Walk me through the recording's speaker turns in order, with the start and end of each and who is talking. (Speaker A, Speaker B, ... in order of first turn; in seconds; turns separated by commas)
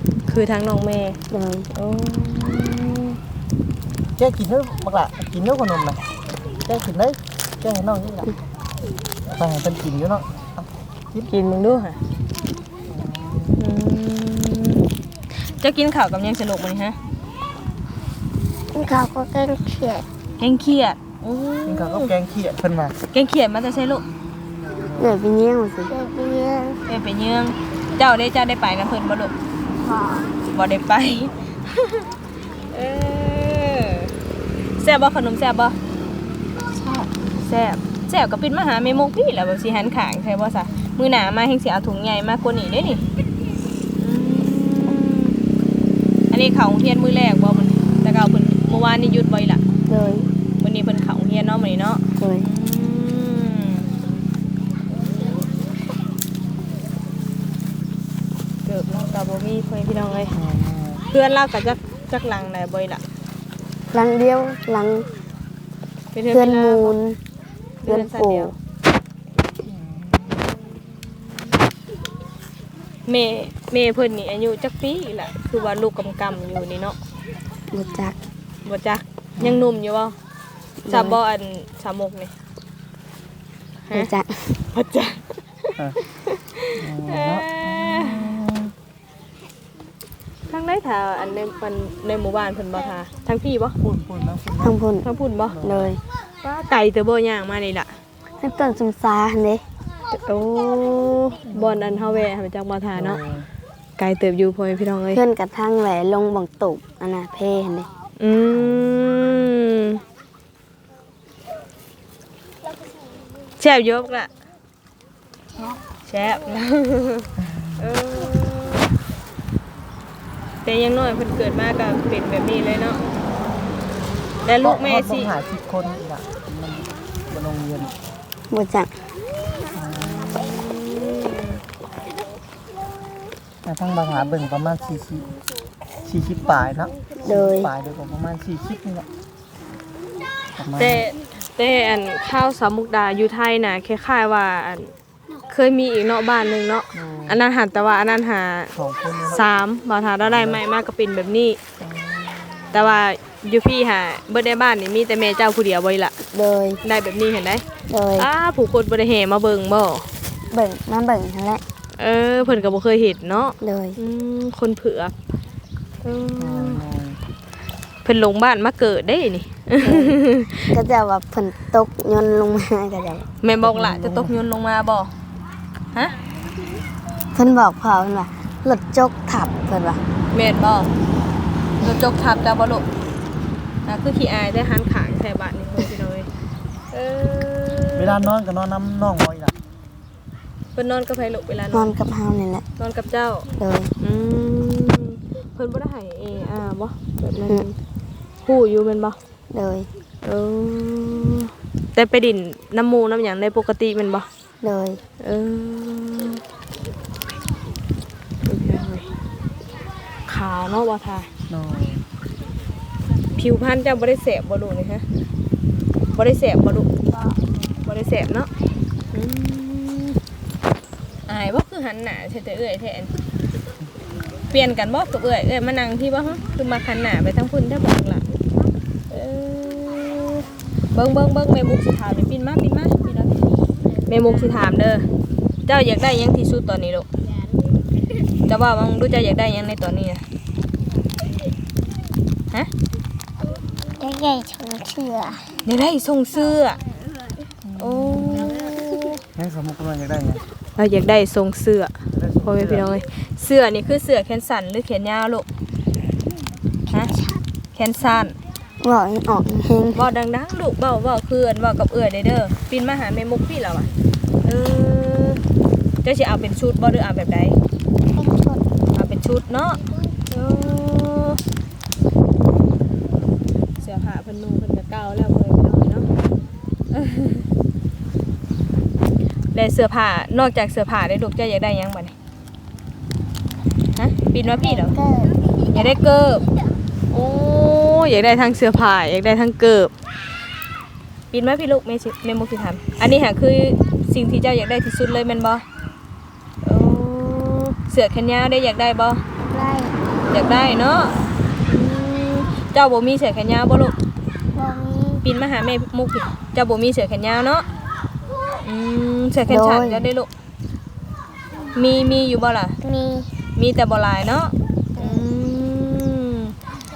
Speaker A: 0.3-1.2, Speaker B: 1.3-1.7, Speaker A: 1.7-3.2, Speaker C: 4.2-6.0, Speaker C: 6.6-8.3, Speaker C: 9.2-11.3, Speaker A: 11.3-12.0, Speaker C: 12.9-13.8, Speaker A: 13.6-14.8, Speaker A: 15.4-17.0, Speaker D: 18.7-20.0, Speaker A: 20.4-22.1, Speaker C: 21.7-22.9, Speaker A: 23.1-24.0, Speaker C: 24.1-25.2, Speaker B: 25.0-25.9, Speaker D: 25.9-26.8, Speaker A: 26.9-29.3, Speaker D: 29.8-30.3, Speaker A: 30.5-32.0, Speaker A: 32.7-34.1, Speaker A: 34.8-35.8, Speaker D: 36.8-37.1, Speaker A: 37.3-43.0, Speaker A: 44.0-45.4, Speaker A: 46.3-49.6, Speaker B: 49.9-50.3, Speaker A: 50.6-53.9, Speaker B: 52.2-52.5, Speaker A: 58.6-60.3, Speaker C: 60.3-61.0, Speaker A: 61.1-63.0, Speaker B: 63.9-65.1, Speaker A: 66.1-66.9, Speaker B: 66.3-67.2, Speaker A: 67.8-68.5, Speaker B: 67.9-68.5, Speaker C: 69.6-70.6, Speaker A: 73.1-77.0, Speaker B: 77.7-78.2, Speaker A: 78.6-80.1, Speaker C: 79.4-79.7, Speaker B: 80.8-81.2, Speaker A: 80.9-82.3, Speaker B: 83.9-84.6, Speaker A: 84.7-88.4, Speaker C: 86.8-88.7, Speaker A: 90.5-93.8, Speaker C: 93.8-94.8, Speaker B: 94.6-95.0, Speaker A: 95.0-95.6, Speaker C: 95.5-95.9, Speaker B: 95.6-96.0, Speaker A: 96.4-98.0, Speaker B: 98.4-99.6, Speaker A: 100.1-103.2, Speaker C: 101.5-102.3, Speaker C: 102.9-103.5, Speaker A: 104.0-105.2, Speaker B: 105.1-107.9, Speaker A: 108.2-110.0, Speaker C: 108.5-109.4, Speaker A: 113.6-114.3, Speaker A: 116.0-118.9, Speaker C: 117.4-117.8, Speaker A: 120.6-123.0, Speaker A: 124.4-125.3, Speaker C: 124.6-127.9, Speaker B: 128.5-128.9, Speaker C: 129.7-130.6, Speaker A: 130.3-131.6, Speaker C: 133.6-135.3, Speaker C: 136.0-139.1, Speaker B: 137.2-137.7, Speaker C: 140.6-141.1, Speaker A: 140.8-144.9, Speaker A: 145.5-148.7, Speaker C: 146.9-147.4, Speaker C: 148.7-149.4, Speaker A: 149.3-151.6, Speaker C: 150.2-150.6, Speaker C: 151.8-153.0, Speaker A: 152.7-156.1, Speaker B: 156.3-156.8, Speaker A: 156.8-157.6, Speaker B: 157.9-158.3, Speaker A: 158.2-160.1, Speaker B: 160.5-161.6, Speaker A: 162.0-165.1, Speaker B: 163.6-164.0, Speaker A: 166.0-166.8, Speaker C: 166.4-167.2, Speaker A: 168.0-170.7, Speaker B: 169.8-170.2, Speaker B: 170.7-173.2, Speaker A: 173.4-175.1, Speaker C: 173.6-174.3, Speaker B: 177.3-180.0, Speaker A: 180.3-180.9, Speaker A: 181.8-182.8, Speaker A: 183.8-186.3, Speaker A: 186.9-188.2, Speaker C: 187.9-189.5, Speaker A: 190.7-191.9, Speaker B: 191.7-192.6, Speaker A: 192.8-193.5, Speaker B: 193.6-193.9, Speaker A: 194.0-197.7, Speaker A: 198.4-199.2, Speaker B: 199.5-199.9, Speaker A: 200.2-204.2, Speaker B: 204.6-205.0, Speaker A: 205.2-206.4, Speaker A: 208.4-209.1, Speaker A: 210.3-211.3, Speaker C: 211.5-212.0, Speaker A: 213.3-215.0, Speaker A: 216.1-216.9, Speaker A: 217.8-218.5, Speaker A: 219.1-220.2, Speaker A: 221.3-223.1, Speaker A: 224.5-228.2, Speaker A: 229.1-233.5, Speaker A: 234.1-235.1, Speaker A: 235.7-237.1, Speaker A: 238.5-240.2, Speaker D: 244.0-245.5, Speaker A: 245.7-246.8, Speaker C: 247.6-248.6, Speaker A: 247.8-249.2, Speaker C: 249.3-250.4, Speaker A: 250.8-255.4, Speaker C: 252.1-252.9, Speaker A: 257.7-258.4, Speaker B: 258.8-260.0, Speaker A: 259.9-263.9, Speaker A: 264.4-265.4, Speaker A: 266.0-267.6, Speaker D: 268.1-268.6, Speaker A: 268.9-271.4, Speaker A: 273.8-276.1, Speaker A: 276.9-277.4, Speaker A: 279.5-282.1, Speaker A: 283.9-284.9, Speaker D: 284.6-285.4, Speaker A: 285.7-286.4, Speaker A: 287.1-289.9, Speaker A: 291.3-295.6, Speaker A: 296.6-299.2, Speaker D: 299.5-299.9, Speaker A: 300.3-303.9, Speaker D: 304.5-305.2, Speaker A: 305.2-307.6, Speaker A: 308.6-310.3, Speaker B: 309.5-310.1, Speaker A: 311.7-312.8, Speaker D: 312.8-313.3, Speaker A: 313.6-316.5, Speaker D: 315.0-315.2